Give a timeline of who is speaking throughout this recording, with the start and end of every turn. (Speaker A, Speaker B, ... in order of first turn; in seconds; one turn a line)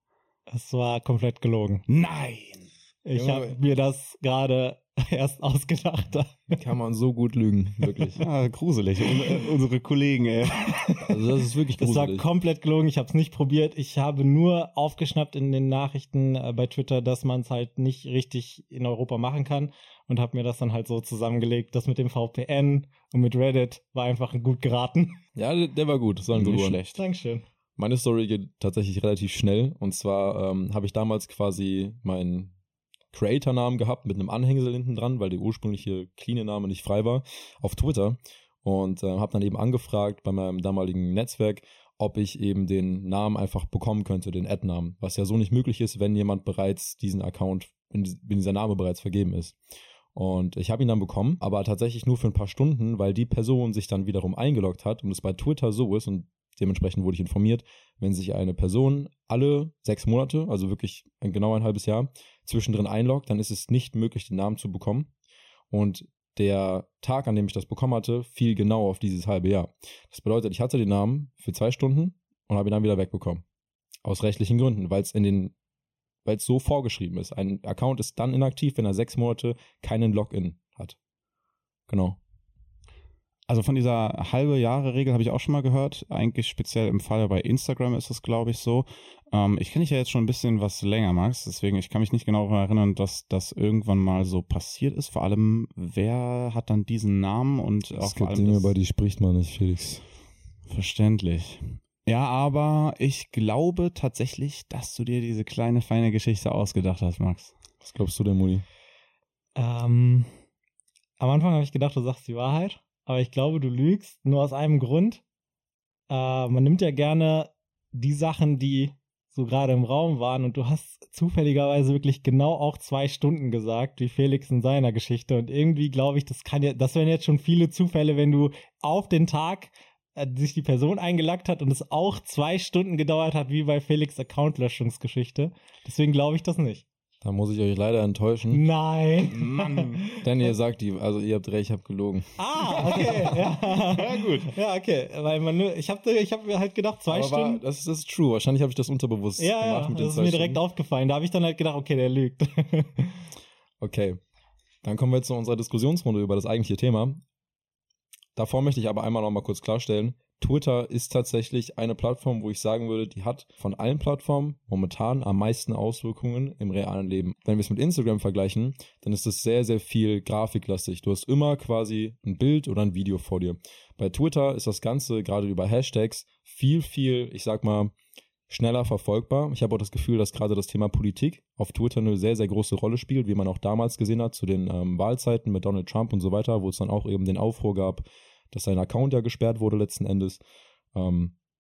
Speaker A: 0.5-1.9
Speaker B: 1.9-2.7
Speaker A: 3.0-6.6
Speaker C: 3.1-3.6
Speaker C: 6.5-8.2
Speaker B: 8.2-11.2
Speaker C: 11.1-12.2
Speaker A: 11.8-25.2
Speaker C: 25.4-26.8
Speaker B: 26.3-27.0
Speaker A: 26.9-27.4
Speaker C: 27.8-32.5
Speaker C: 33.1-49.6
Speaker C: 50.1-65.1
Speaker C: 65.7-73.4
Speaker C: 74.0-75.5
Speaker C: 76.2-81.0
Speaker C: 81.9-82.2
Speaker B: 83.5-98.7
Speaker C: 97.9-100.0
Speaker B: 100.7-107.5
Speaker C: 107.8-108.6
Speaker A: 109.6-110.3
Speaker A: 111.2-115.2
Speaker A: 116.1-136.8
Speaker C: 137.2-138.6
Speaker A: 138.5-140.2
Speaker B: 139.3-140.1
Speaker C: 140.2-143.4
Speaker A: 142.4-147.6
Speaker B: 142.8-144.5
Speaker C: 147.1-150.6
Speaker A: 149.4-153.2
Speaker C: 153.8-154.2
Speaker C: 154.8-157.2
Speaker C: 158.3-177.9
Speaker C: 178.5-190.4
Speaker C: 190.9-191.3